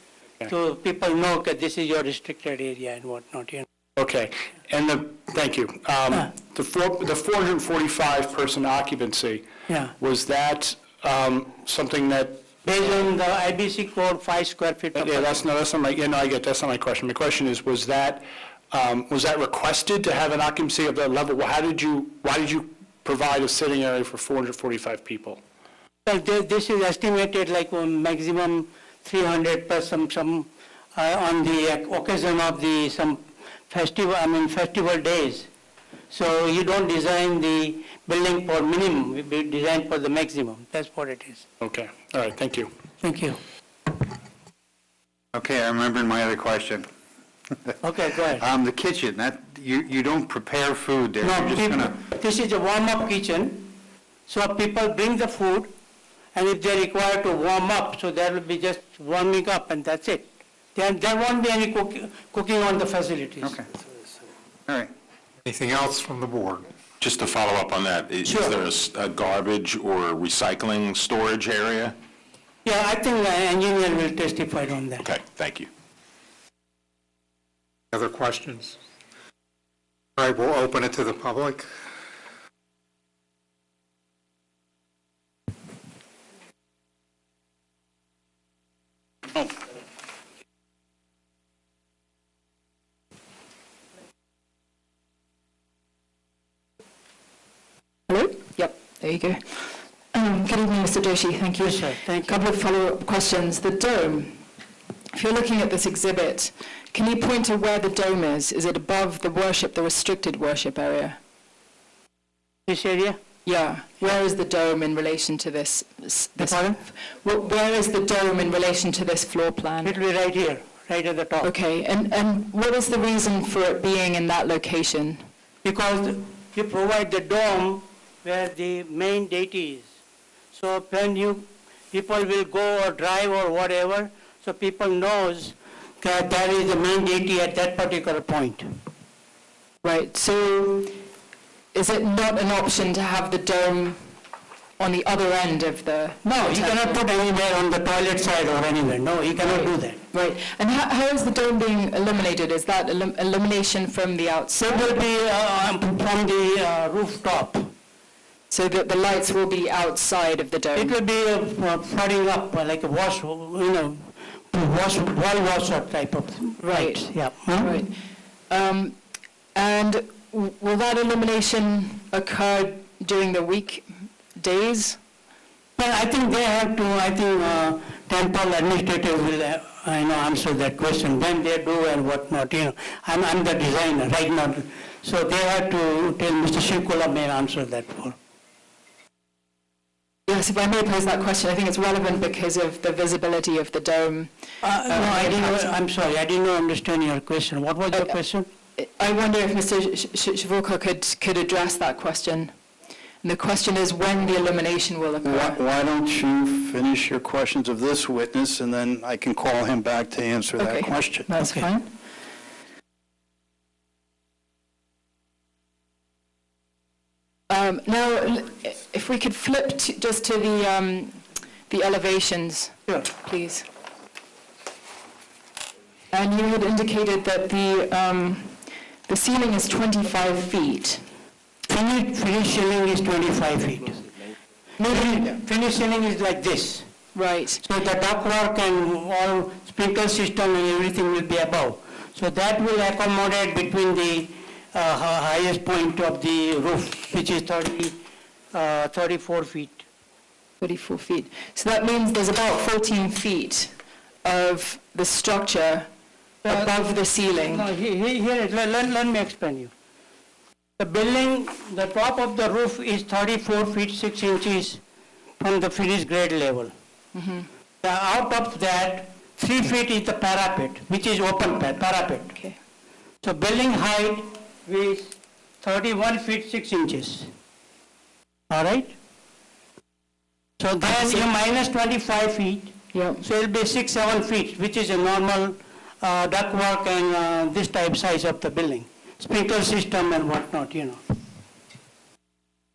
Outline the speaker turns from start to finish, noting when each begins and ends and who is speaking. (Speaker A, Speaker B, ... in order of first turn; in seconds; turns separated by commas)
Speaker A: 0.5-3.6, Speaker B: 4.0-9.4, Speaker A: 9.7-9.9, Speaker B: 10.0-12.4, Speaker A: 12.6-15.4, Speaker B: 14.9-25.4, Speaker A: 26.1-35.5, Speaker A: 36.1-41.5, Speaker B: 41.6-42.7, Speaker A: 43.0-43.4, Speaker C: 45.3-46.9, Speaker A: 47.8-48.4, Speaker C: 48.4-51.9, Speaker A: 51.2-53.7, Speaker A: 54.3-55.7, Speaker A: 56.3-63.5, Speaker D: 65.5-66.5, Speaker E: 67.0-71.9, Speaker A: 68.2-68.6, Speaker A: 72.6-75.0, Speaker E: 75.0-75.7, Speaker D: 78.0-78.7, Speaker D: 80.2-81.6, Speaker F: 98.1-104.4, Speaker A: 101.6-102.4, Speaker F: 105.1-111.2, Speaker A: 112.7-113.2, Speaker F: 113.4-120.0, Speaker A: 116.4-116.8, Speaker A: 119.8-121.5, Speaker F: 121.4-125.2, Speaker A: 125.6-129.9, Speaker A: 130.5-138.7, Speaker F: 139.8-141.0, Speaker F: 141.7-144.0, Speaker F: 144.8-147.0, Speaker A: 146.2-150.0, Speaker F: 149.4-155.0, Speaker A: 154.6-157.7, Speaker F: 158.5-160.9, Speaker A: 160.7-167.7, Speaker F: 166.6-167.9, Speaker F: 168.5-169.0, Speaker F: 169.5-175.0, Speaker A: 175.8-188.2, Speaker F: 190.3-195.7, Speaker A: 194.6-198.5, Speaker F: 198.8-202.5, Speaker F: 203.2-205.6, Speaker G: 205.2-211.3, Speaker F: 210.6-211.9, Speaker A: 211.4-211.7, Speaker F: 217.5-223.6, Speaker F: 226.1-231.0, Speaker A: 231.7-234.1, Speaker A: 234.8-236.9, Speaker F: 234.8-235.2, Speaker F: 237.1-237.6, Speaker A: 237.6-247.9, Speaker A: 248.5-249.8, Speaker F: 250.6-253.7, Speaker F: 254.2-255.9, Speaker A: 256.4-259.7, Speaker F: 256.5-257.7, Speaker A: 260.8-264.8, Speaker A: 265.4-266.7, Speaker F: 267.1-267.5, Speaker A: 267.8-272.3, Speaker A: 273.2-277.3, Speaker A: 278.5-278.9, Speaker A: 280.6-291.0, Speaker F: 282.9-283.2